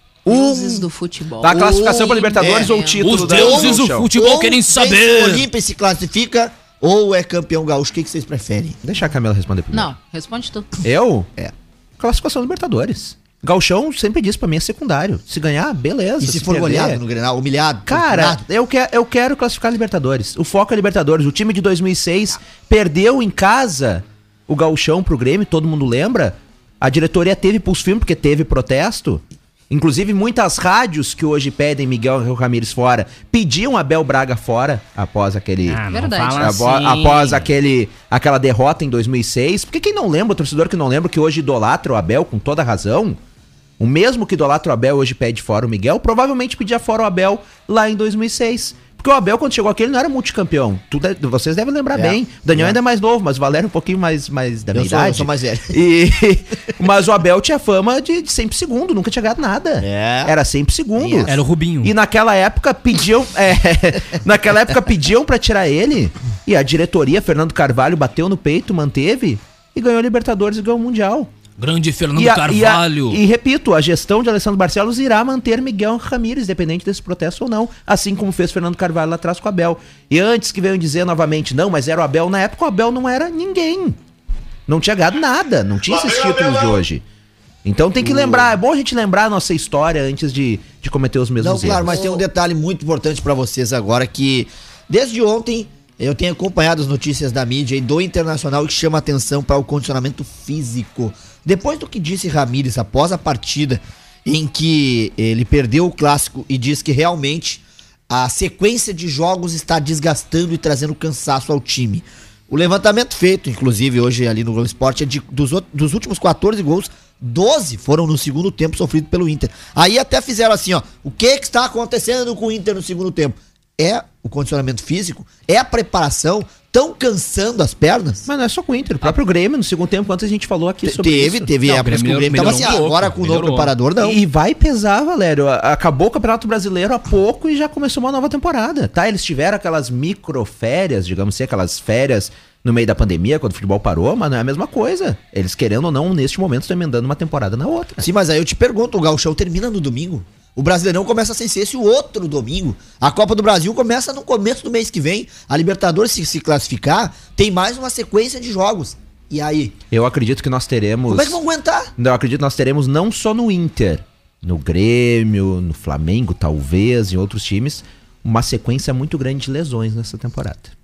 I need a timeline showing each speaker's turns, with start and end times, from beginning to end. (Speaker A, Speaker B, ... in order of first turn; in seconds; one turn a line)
Speaker A: 0.2-0.9
Speaker B: 0.3-3.0
Speaker C: 1.4-4.1
Speaker A: 1.4-8.8
Speaker D: 3.0-5.5
Speaker C: 8.8-9.9
Speaker B: 9.7-10.7
Speaker C: 10.8-17.0
Speaker A: 16.2-18.4
Speaker C: 17.9-43.2
Speaker D: 35.7-37.5
Speaker B: 35.9-36.6
Speaker C: 43.8-71.3
Speaker A: 51.9-52.8
Speaker A: 54.7-55.8
Speaker A: 59.8-60.3
Speaker A: 61.0-61.4
Speaker D: 61.2-61.9
Speaker D: 71.6-73.2
Speaker C: 72.2-84.0
Speaker C: 84.7-87.0
Speaker C: 87.7-92.1
Speaker A: 88.0-88.5
Speaker A: 91.4-128.3
Speaker B: 91.9-92.2
Speaker C: 128.3-131.5
Speaker A: 130.8-134.2
Speaker D: 131.6-133.7
Speaker C: 132.4-132.8
Speaker C: 134.0-148.0
Speaker A: 148.0-159.8
Speaker C: 159.9-161.4
Speaker A: 161.1-161.9
Speaker C: 162.0-170.7